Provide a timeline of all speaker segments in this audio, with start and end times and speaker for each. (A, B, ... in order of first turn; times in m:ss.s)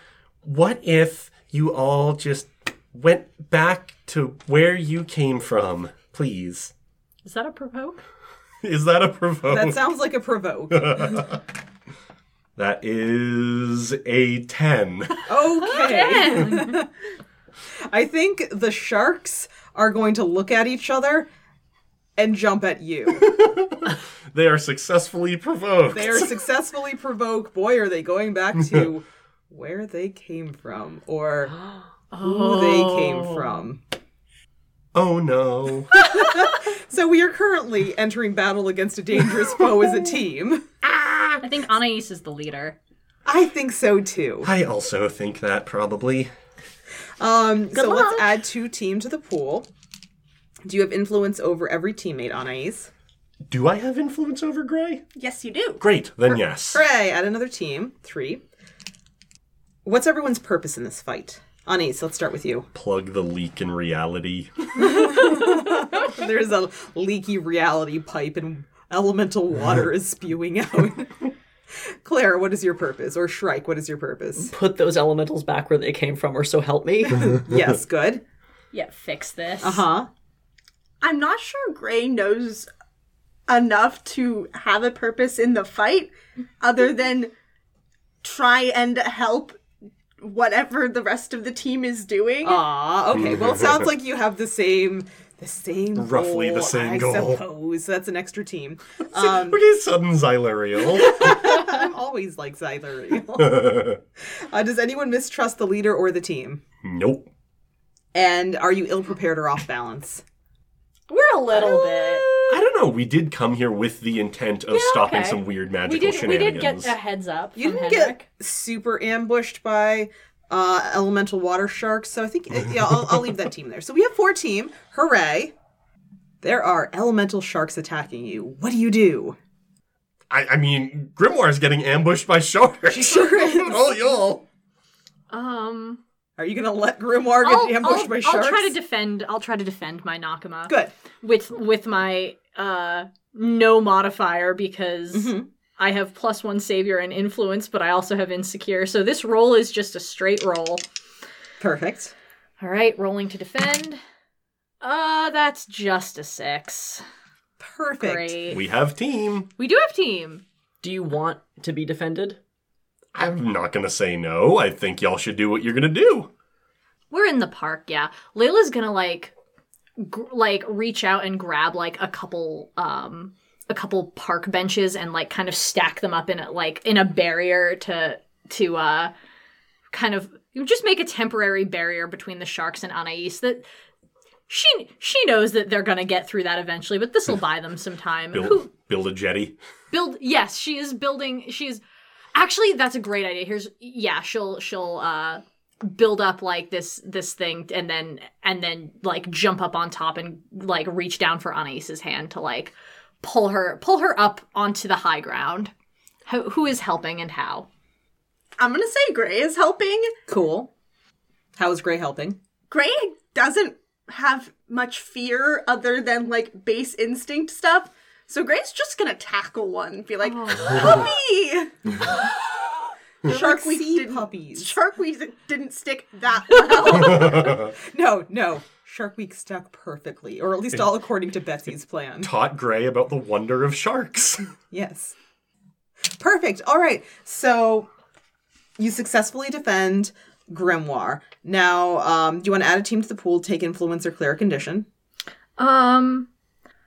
0:00.4-0:06.7 A
0:07.2-0:08.0 B
0:08.6-0:09.8 A
0:09.5-0:11.2 C
0:10.7-0:11.4 A
0:12.6-0:15.3 A
0:15.3-0:16.9 C
0:15.6-0:16.8 B
0:17.9-0:21.3 C
0:22.2-0:23.3 C
0:23.2-0:26.3 A
0:25.9-0:31.6 C
0:32.1-0:33.6 B
0:32.2-0:33.8 C
0:34.9-0:36.1 A
0:36.0-0:40.7 C
0:40.8-0:41.4 A
0:41.4-0:42.8 B
0:43.3-0:44.5 C
0:44.4-0:46.3 A
0:47.2-0:49.7 C
0:47.7-0:48.3 D
0:50.6-0:52.9 C
0:53.5-0:55.0 A
0:55.2-0:55.8 E
0:55.8-0:56.8 A
0:56.3-0:58.4 C
0:59.8-1:02.7 C
1:02.7-1:04.8 A
1:04.8-1:11.3 C
1:11.8-1:14.5 C
1:14.4-1:17.4 D
1:17.2-1:18.2 C
1:18.7-1:19.9 B
1:19.6-1:20.1 C
1:21.0-1:22.7 E
1:23.5-1:27.3 E
1:28.2-1:29.6 E
1:30.2-1:32.6 E
1:32.4-1:39.6 C
1:33.2-1:33.6 A
1:36.0-1:37.4 A
1:39.1-1:41.5 A
1:41.0-1:46.6 C
1:43.4-1:44.0 A
1:46.8-1:47.3 A
1:48.1-1:50.2 C
1:51.1-1:52.3 B
1:51.5-1:52.4 C
1:52.5-1:57.0 A
1:54.7-1:58.2 B
1:57.6-2:05.5 C
2:06.4-2:09.4 C
2:10.3-2:14.4 A
2:12.9-2:13.9 C
2:15.3-2:16.0 B
2:16.4-2:18.8 C
2:17.4-2:30.8 B
2:20.7-2:20.9 C
2:25.1-2:25.5 C
2:31.6-2:32.2 C
2:32.6-2:34.0 B
2:34.8-2:37.0 B
2:37.6-2:38.4 C
2:38.0-2:38.6 B
2:38.5-2:39.5 A
2:39.6-2:40.4 B
2:40.8-2:42.4 D
2:43.1-2:46.3 A
2:47.1-2:49.3 B
2:50.0-2:59.1 B
2:59.9-3:03.7 B
3:04.5-3:08.7 B
3:08.3-3:09.6 A
3:09.9-3:11.8 B
3:12.4-3:25.7 B
3:26.3-3:27.7 B
3:28.6-3:30.1 E
3:30.3-3:30.7 C
3:31.6-3:32.4 C
3:32.7-3:42.1 E
3:40.2-3:40.9 B
3:43.2-3:44.8 C
3:43.2-3:47.6 E
3:46.7-3:47.2 B
3:47.1-3:52.3 C
3:47.2-3:47.7 A
3:52.2-3:54.5 A
3:54.7-3:55.2 C
3:56.2-3:57.9 C
3:58.8-4:04.9 C
4:05.6-4:06.3 B